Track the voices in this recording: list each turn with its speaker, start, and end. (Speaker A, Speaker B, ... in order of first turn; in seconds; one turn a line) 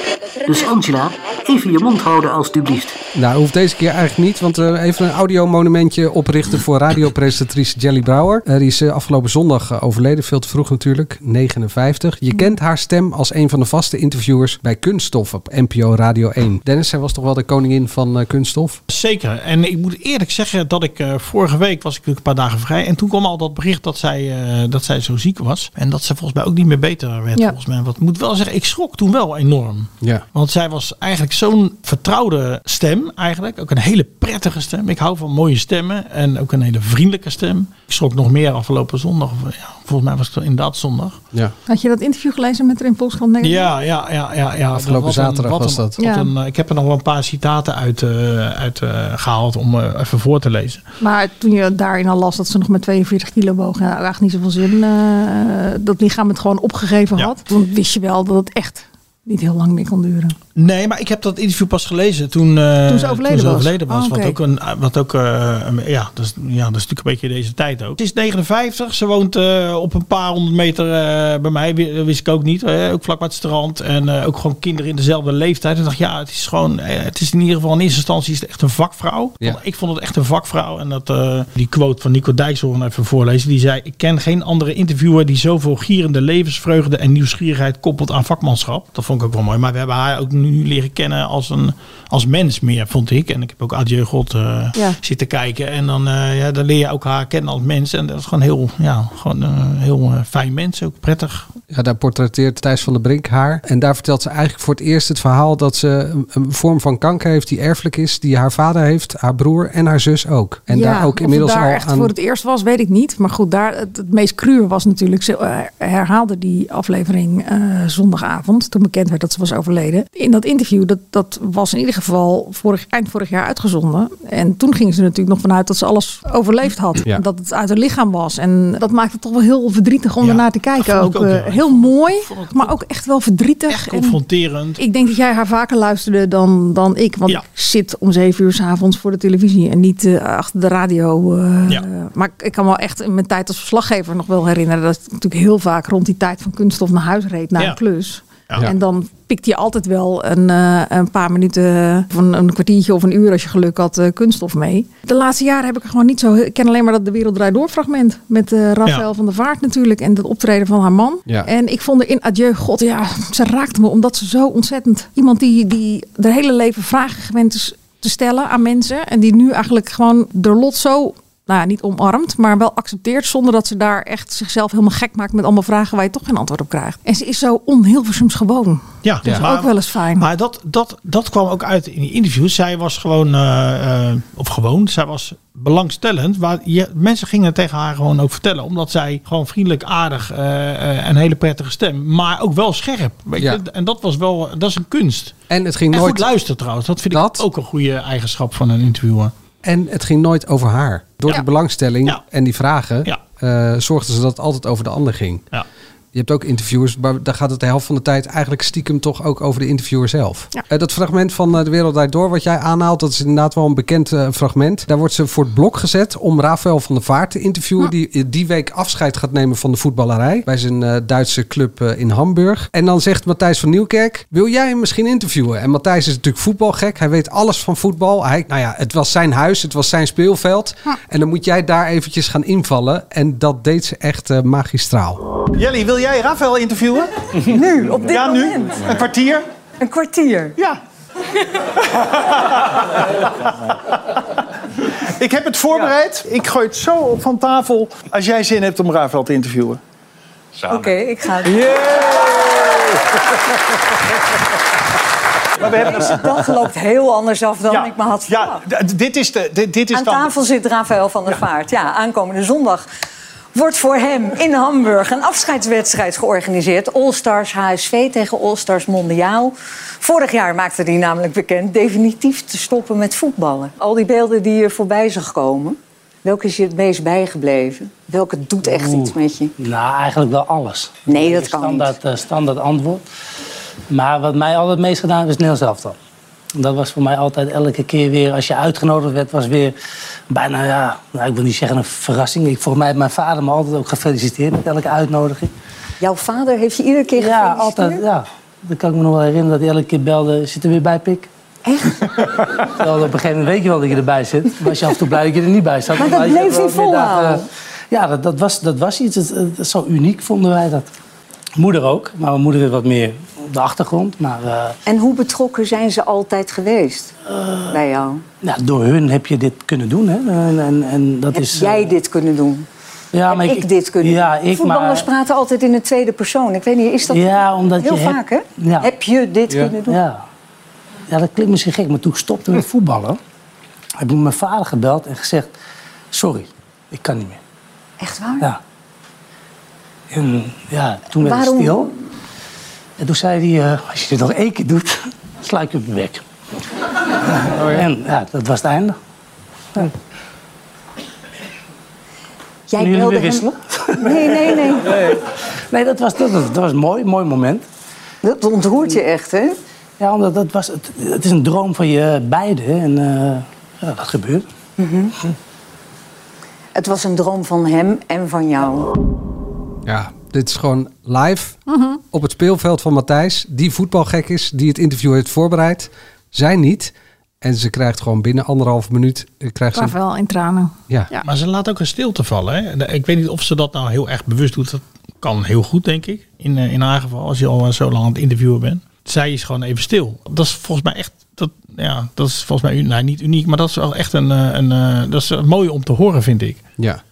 Speaker A: 0.5-2.9
Speaker B: 3.1-18.8
Speaker C: 18.9-41.2
Speaker D: 41.7-43.7
Speaker C: 43.4-50.8
Speaker B: 44.7-46.0
Speaker D: 46.0-46.3
Speaker D: 51.0-60.4
Speaker C: 60.6-101.5
Speaker D: 62.9-64.4
Speaker B: 101.7-112.1
Speaker D: 110.7-134.2
Speaker C: 130.2-132.8
Speaker C: 133.7-134.8
Speaker D: 134.8-180.3
Speaker C: 179.0-195.4
Speaker B: 195.5-196.2
Speaker C: 195.9-199.3
Speaker B: 197.1-197.4
Speaker B: 199.6-205.4
Speaker B: 206.1-235.2
Speaker E: 235.6-237.1
Speaker F: 237.5-238.9
Speaker E: 238.1-239.4
Speaker F: 239.8-240.6
Speaker E: 245.2-249.8
Speaker F: 250.7-252.3
Speaker F: 255.7-258.6
Speaker E: 258.8-260.3
Speaker F: 259.9-262.8
Speaker F: 263.5-279.5
Speaker G: 278.6-283.0
Speaker F: 281.1-281.9
Speaker G: 283.9-285.9
Speaker G: 286.6-289.8
Speaker G: 290.3-295.5
Speaker F: 296.0-298.0
Speaker G: 297.2-301.3
Speaker F: 301.7-302.1
Speaker G: 302.7-310.9
Speaker F: 306.0-307.4
Speaker G: 311.6-314.8
Speaker F: 314.9-317.1
Speaker G: 317.3-317.8
Speaker F: 317.7-318.2
Speaker G: 318.4-321.9
Speaker F: 321.3-322.7
Speaker G: 323.1-325.1
Speaker F: 323.3-330.0
Speaker G: 327.1-328.9
Speaker G: 329.8-330.2
Speaker G: 331.1-333.2
Speaker G: 334.0-335.5
Speaker G: 336.1-337.4
Speaker F: 338.0-338.5
Speaker G: 340.1-341.9
Speaker F: 341.2-341.9
Speaker G: 343.0-346.2
Speaker G: 347.3-349.0
Speaker F: 352.7-355.2
Speaker G: 352.8-357.6
Speaker F: 358.2-359.6
Speaker G: 360.0-364.4
Speaker F: 364.8-365.1
Speaker F: 366.8-368.9
Speaker B: 369.9-371.6
Speaker D: 371.7-372.0
Speaker B: 372.1-380.0
Speaker D: 379.7-381.2
Speaker C: 381.2-396.6